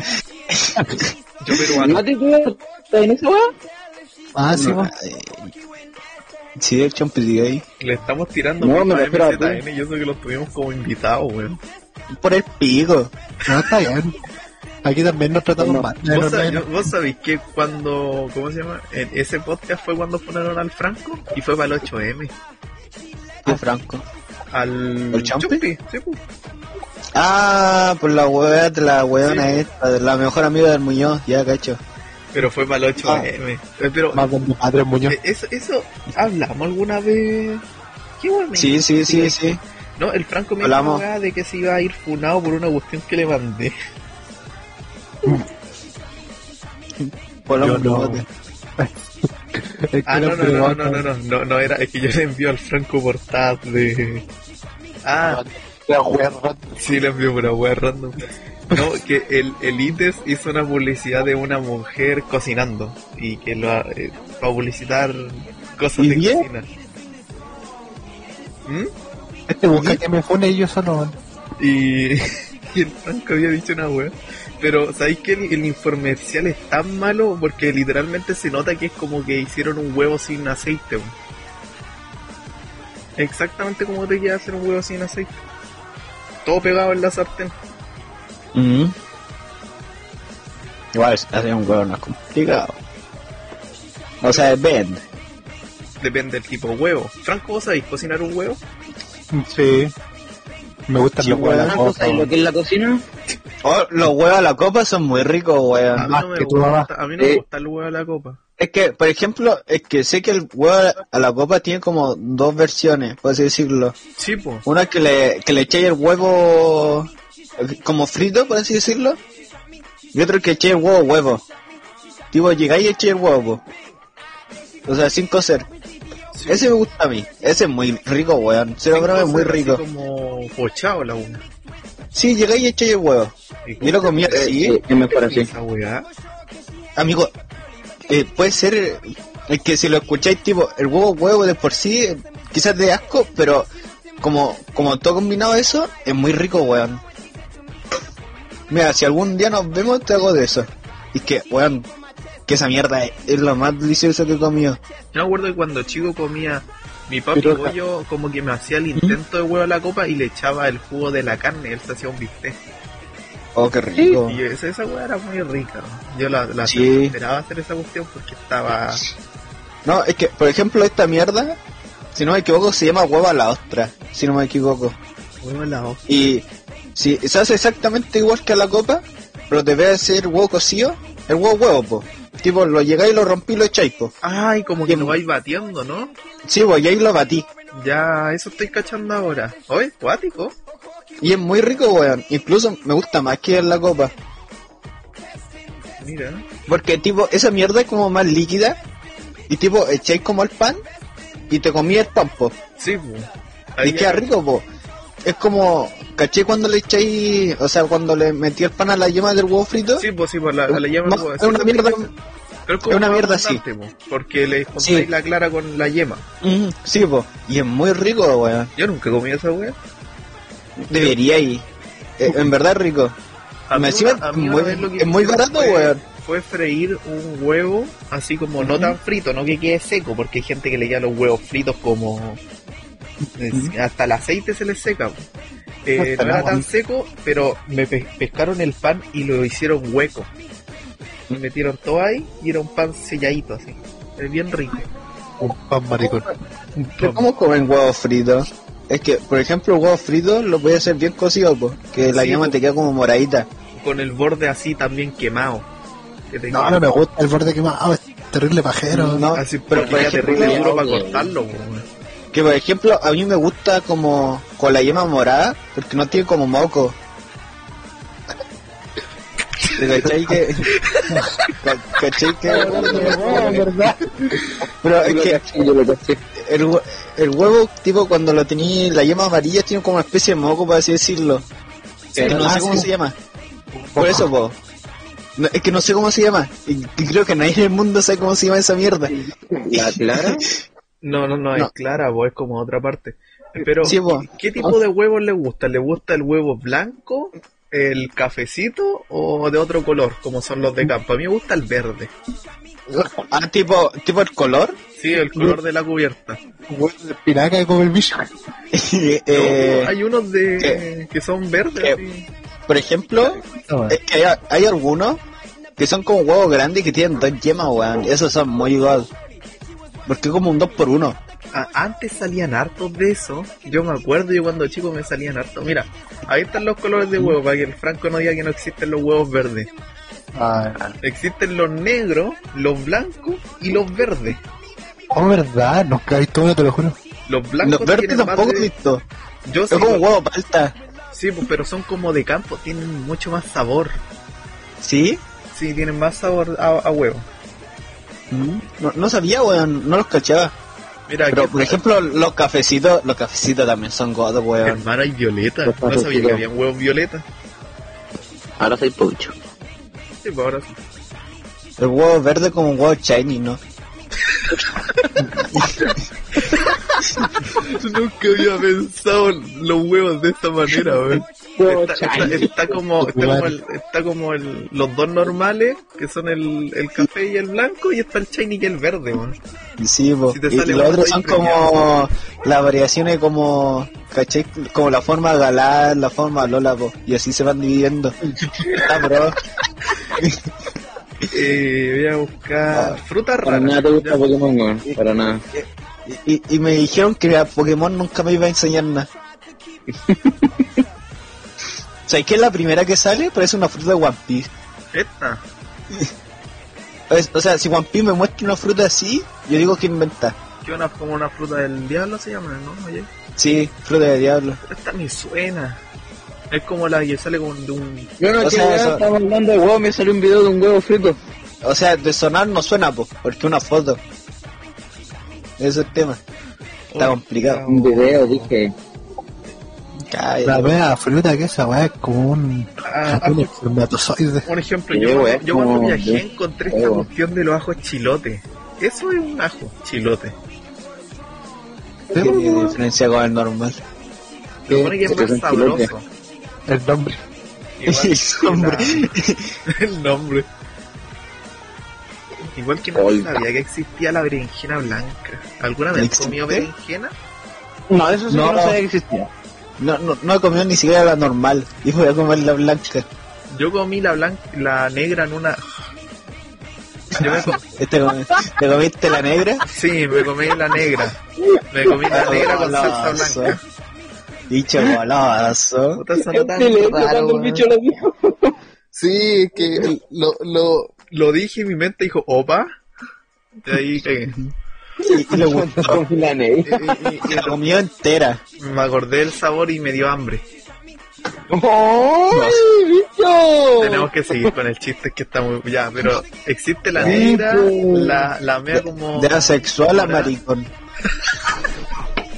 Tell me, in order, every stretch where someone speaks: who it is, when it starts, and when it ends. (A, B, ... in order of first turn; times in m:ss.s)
0:00.5-0:01.1 A
0:01.4-0:02.0 B
0:01.8-0:03.5 C
0:04.4-0:04.9 D
0:04.5-0:05.5 A
0:06.6-0:07.6 A
0:07.8-0:11.6 B
0:08.6-0:09.6 C
0:12.1-0:13.1 A
0:13.5-0:14.1 D
0:14.8-0:16.8 D
0:15.6-0:15.9 C
0:16.1-0:22.3 B
0:23.4-0:24.0 A
0:24.5-0:26.2 B
0:25.1-0:25.6 A
0:27.1-0:31.8 A
0:29.2-0:29.6 B
0:32.3-0:34.2 B
0:33.0-0:33.3 A
0:34.1-0:35.2 D
0:35.1-0:37.6 B
0:38.2-0:43.7 B
0:38.5-0:39.6 A
0:40.6-0:41.0 A
0:47.0-0:48.2 A
0:47.6-0:48.2 D
0:48.8-0:51.0 D
0:50.0-0:54.2 B
0:55.0-0:55.4 B
0:55.2-0:56.8 D
0:56.8-1:06.7 B
1:06.0-1:06.5 A
1:08.6-1:08.9 B
1:09.5-1:11.2 D
1:11.6-1:21.1 B
1:23.2-1:25.4 B
1:26.4-1:27.5 B
1:28.5-1:28.9 A
1:30.9-1:32.8 A
1:34.2-1:35.0 A
1:36.0-1:38.6 B
1:39.3-1:39.9 D
1:40.9-1:42.3 D
1:41.2-1:41.8 A
1:41.6-1:43.0 C
1:43.6-1:46.1 A
1:45.9-1:48.4 B
1:46.0-1:46.9 D
1:48.6-1:54.0 A
1:54.2-1:54.6 B
1:54.6-1:59.2 A
2:00.1-2:01.4 A
2:02.3-2:03.6 A
2:04.8-2:05.7 A
2:06.3-2:06.7 B
2:06.5-2:09.8 A
2:08.9-2:11.4 B
2:12.1-2:14.8 A
2:13.6-2:16.0 B
2:14.4-2:15.5 C
2:17.0-2:17.3 A
2:18.1-2:23.7 A
2:24.2-2:27.0 A
2:28.7-2:31.9 A
2:32.5-2:34.8 A
2:35.1-2:42.6 B
2:37.3-2:37.7 D
2:43.6-2:44.4 A
2:44.2-2:49.0 B
2:46.6-2:47.1 A
2:49.8-2:51.6 A
2:52.1-2:55.0 A
2:55.4-2:56.3 B
2:56.1-3:04.1 A
3:04.2-3:06.1 B
3:04.8-3:05.2 A
3:06.4-3:07.5 A
3:07.7-3:10.5 B
3:11.2-3:14.1 A
3:16.0-3:16.4 B
3:16.7-3:18.8 A
3:19.5-3:20.8 A
3:21.5-3:22.5 A
3:22.8-3:24.3 B
3:23.8-3:24.6 A
3:25.2-3:30.1 A
3:30.0-3:32.1 B
3:30.7-3:32.1 A
3:32.7-3:36.2 B
3:32.9-3:33.6 A
3:34.8-3:35.1 A
3:36.4-3:38.7 A
3:38.8-3:39.8 B
3:40.8-3:41.6 A
3:42.2-3:43.2 A
3:43.7-3:52.4 B
3:43.7-3:46.0 A
3:48.6-3:49.0 A
3:53.4-3:55.2 B
3:55.8-4:00.3 B
3:56.2-3:56.6 D
3:56.2-3:56.5 A
4:01.3-4:04.9 B
4:05.4-4:06.3 D
4:06.0-4:06.3 A
4:06.7-4:07.2 B
4:07.0-4:13.5 A
4:12.0-4:12.6 B
4:13.7-4:15.7 B
4:16.3-4:16.8 B
4:16.5-4:19.2 D
4:18.9-4:20.6 A
4:19.3-4:21.8 B
4:19.7-4:21.3 C
4:22.3-4:27.0 A
4:29.8-4:30.7 A
4:30.7-4:31.5 B
4:31.6-4:33.7 A
4:32.4-4:34.0 C
4:32.5-4:34.5 D
4:34.8-4:35.4 A
4:35.0-4:36.2 C
4:36.4-4:41.4 A
4:42.1-4:42.9 C
4:42.1-4:43.2 A
4:42.2-4:42.8 D
4:43.7-4:44.3 D
4:44.0-4:44.6 A
4:45.4-4:49.1 A
4:49.1-4:50.5 C
4:49.7-4:50.5 A
4:51.0-5:02.1 B
4:53.8-4:54.7 A
5:02.9-5:03.2 D
5:03.3-5:04.8 A
5:05.0-5:06.4 B
5:06.7-5:08.3 D
5:08.7-5:09.9 A
5:09.3-5:12.3 B
5:12.7-5:15.2 A
5:13.4-5:14.0 D
5:15.8-5:19.1 A
5:20.0-5:21.2 A
5:21.5-5:29.7 B
5:30.3-5:30.9 D
5:31.0-5:34.4 B
5:35.1-5:37.0 D
5:37.3-5:38.7 B
5:37.6-5:39.0 A
5:39.4-5:40.1 B
5:39.7-5:40.8 A
5:41.1-5:44.0 B
5:44.8-5:45.2 A
5:45.5-5:47.2 B
5:48.3-5:50.5 A
5:51.1-5:51.8 B
5:51.3-5:54.8 A
5:54.6-5:57.2 B
5:55.6-5:56.4 C
5:58.6-5:59.3 C
6:00.2-6:00.8 B
6:01.8-6:03.6 A
6:04.2-6:19.4 B
6:05.5-6:06.0 A
6:11.6-6:12.7 C
6:13.0-6:13.5 D
6:19.8-6:29.4 A
6:20.3-6:21.8 B
6:28.5-6:29.1 C
6:30.1-6:30.4 A
6:31.3-6:34.2 B
6:32.7-6:33.0 A
6:33.4-6:35.4 C
6:35.5-6:39.1 A
6:39.9-6:40.7 C
6:42.0-6:44.5 A
6:44.9-6:45.4 B
6:47.1-6:50.4 A
6:50.6-6:53.1 B
6:53.4-6:54.6 A
6:54.6-6:55.8 B
6:56.5-6:58.1 B
6:58.2-7:01.2 C
6:58.4-6:59.0 A
7:01.6-7:04.0 A
7:05.6-7:06.2 A
7:06.9-7:08.5 B
7:07.0-7:07.6 A
7:07.7-7:08.7 C
7:10.1-7:10.8 A
7:10.4-7:14.5 D
7:12.8-7:13.5 B
7:14.4-7:20.4 B
7:14.9-7:17.1 C
7:22.1-7:22.6 D
7:22.1-7:23.8 A
7:24.7-7:26.0 B
7:24.9-7:25.9 C
7:26.7-7:27.2 D
7:27.8-7:29.1 B
7:27.9-7:29.5 A
7:29.7-7:30.5 B
7:32.5-7:37.1 B
7:32.9-7:33.4 C
7:35.9-7:36.7 A
7:37.9-7:39.3 C
7:38.3-7:38.8 A
7:39.8-7:43.0 A
7:43.5-7:45.6 B
7:47.1-7:49.6 A
7:47.2-7:47.7 B
7:49.6-7:51.2 B
7:51.4-7:52.3 C
7:51.7-7:53.6 B
7:52.1-7:53.6 A
7:54.5-7:56.0 A
7:56.0-7:57.6 B
7:56.3-7:58.6 C
7:59.0-7:59.9 D
7:59.6-8:02.7 B
8:03.6-8:04.4 B
8:05.0-8:07.2 C
8:05.0-8:06.0 A
8:06.6-8:07.6 B
8:07.2-8:08.4 A
8:08.6-8:10.4 B
8:11.5-8:14.5 C
8:12.3-8:12.6 A
8:13.8-8:20.3 B
8:17.0-8:17.3 A
8:17.0-8:18.2 C
8:18.7-8:20.7 A